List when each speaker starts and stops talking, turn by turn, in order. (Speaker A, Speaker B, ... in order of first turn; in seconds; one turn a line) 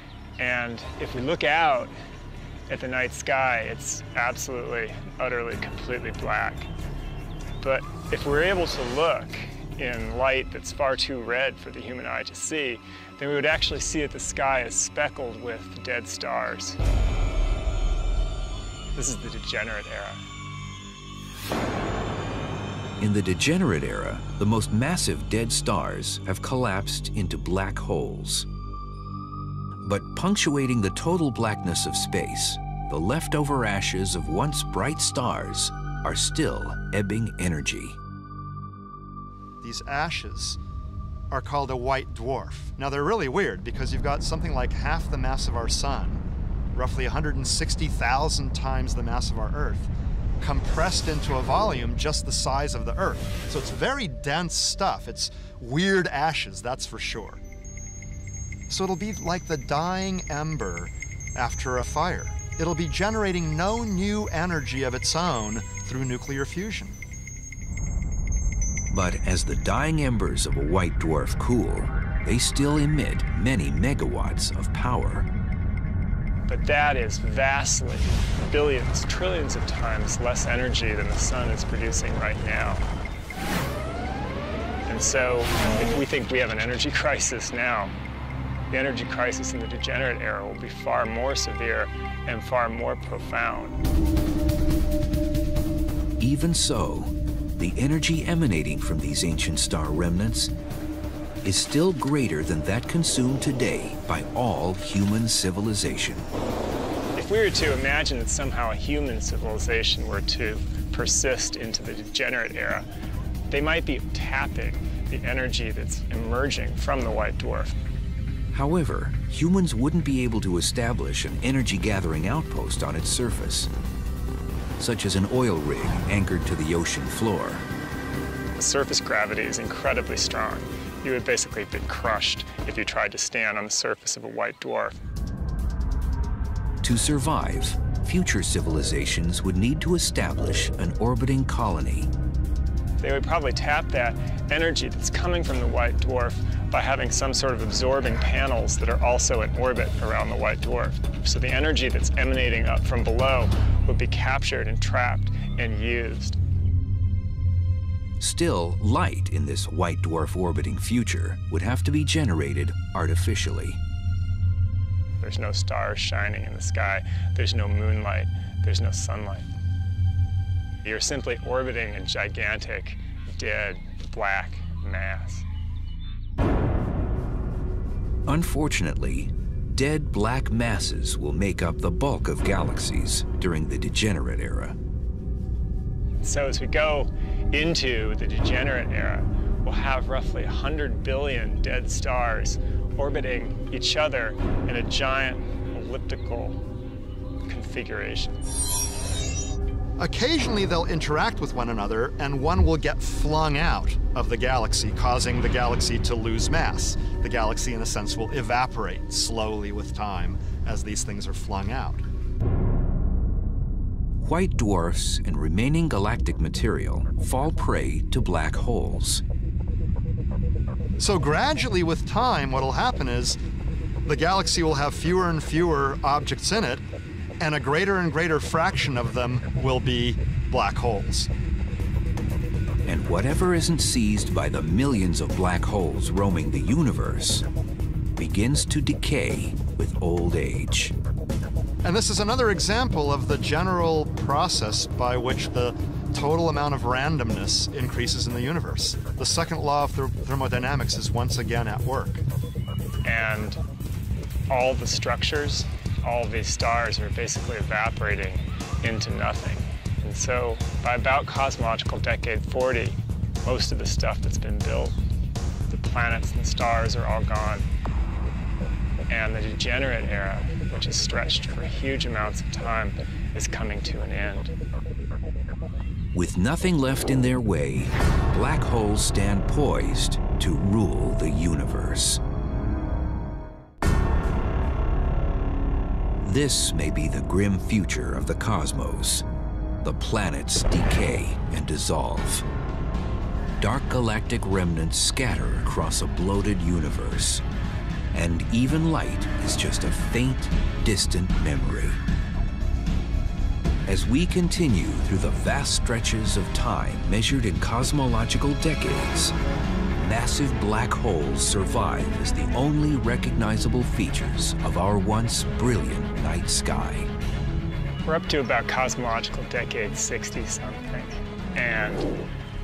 Speaker A: 0.4-1.9
Speaker A: 2.7-6.7
Speaker A: 7.6-16.8
Speaker A: 18.9-20.2
Speaker B: 23.0-28.5
Speaker B: 29.8-38.0
Speaker C: 39.6-40.6
Speaker C: 41.3-46.2
Speaker C: 46.7-49.9
Speaker C: 50.4-57.4
Speaker C: 58.7-67.0
Speaker B: 68.9-75.3
Speaker A: 76.5-82.8
Speaker A: 84.8-87.9
Speaker A: 88.7-93.8
Speaker B: 96.2-100.5
Speaker B: 101.4-106.3
Speaker A: 107.2-112.9
Speaker A: 113.5-117.7
Speaker B: 118.5-123.7
Speaker B: 124.8-127.6
Speaker A: 128.6-135.0
Speaker B: 136.8-142.1
Speaker A: 143.0-156.4
Speaker B: 158.2-163.8
Speaker A: 165.2-169.4
Speaker A: 170.8-175.4
Speaker B: 178.3-184.8
Speaker A: 186.2-196.6
Speaker A: 197.5-198.4
Speaker C: 200.0-212.0
Speaker B: 214.2-219.2
Speaker C: 221.0-223.4
Speaker C: 224.1-226.8
Speaker C: 227.4-231.3
Speaker B: 232.8-237.4
Speaker B: 238.2-240.9
Speaker C: 241.8-252.2
Speaker A: 253.0-253.6
Speaker A: 254.5-264.9
Speaker A: 265.7-267.6
Speaker A: 269.1-274.5
Speaker B: 276.1-282.2
Speaker B: 286.2-289.2
Speaker B: 289.8-292.4
Speaker B: 293.6-297.4
Speaker B: 298.1-302.0
Speaker B: 303.9-309.3
Speaker B: 309.9-317.1
Speaker A: 318.0-322.1